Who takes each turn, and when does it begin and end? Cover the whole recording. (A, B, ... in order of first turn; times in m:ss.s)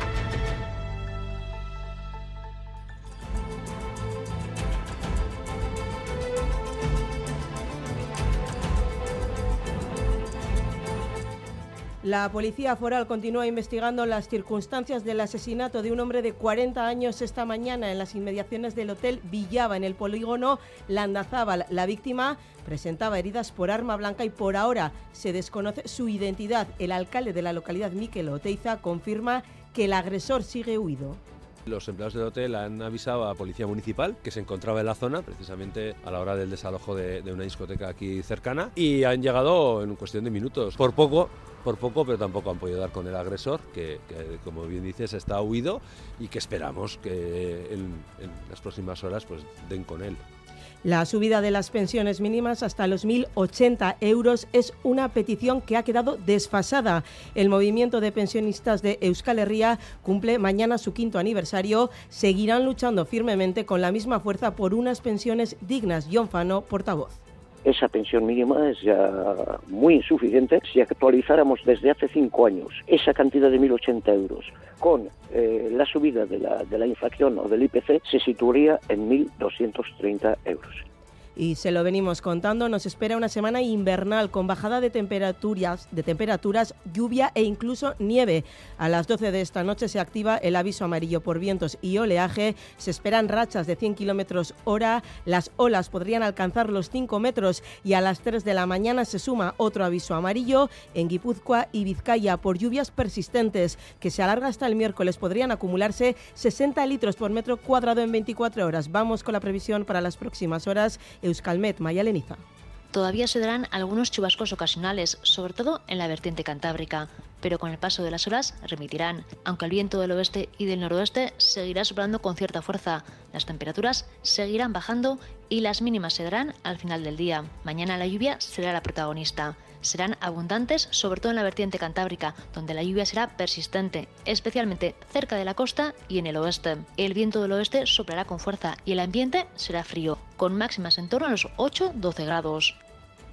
0:12.0-0:31.2 A
0:31.7-0:50.2 B
0:50.8-1:07.2 A
1:07.6-1:20.8 C
1:21.4-1:52.4 A
1:52.9-2:22.8 D